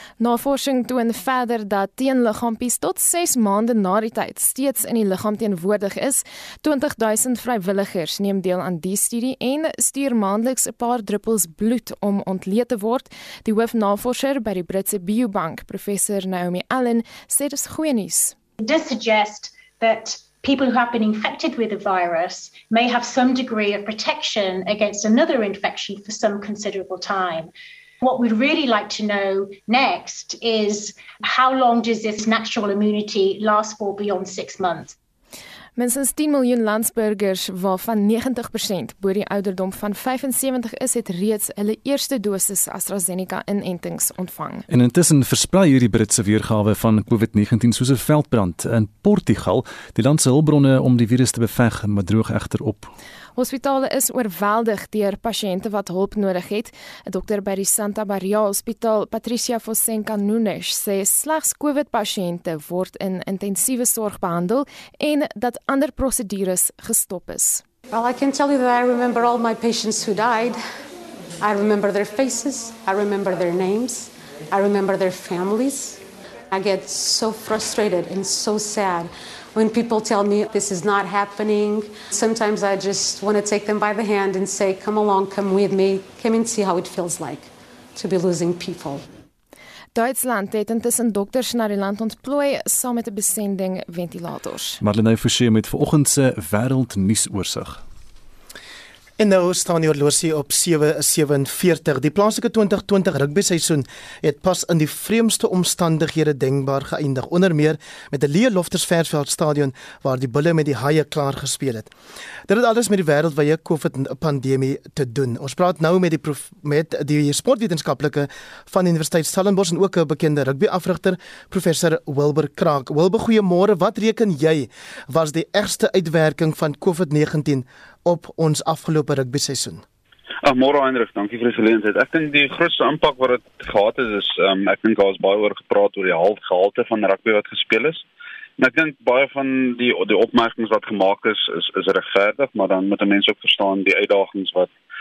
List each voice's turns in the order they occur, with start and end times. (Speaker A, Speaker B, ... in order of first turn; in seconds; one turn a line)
Speaker A: 0.2-18.3
Speaker B: 18.6-27.5
Speaker B: 28.0-35.0
Speaker A: 35.8-44.7
Speaker C: 44.7-52.9
Speaker A: 53.4-67.6
Speaker D: 67.9-70.6
Speaker D: 71.4-89.0
Speaker A: 90.0-94.8
Speaker C: 94.8-97.8
Speaker E: 99.2-111.9
Speaker E: 112.5-129.8
Speaker F: 130.4-138.0
Speaker F: 138.6-144.7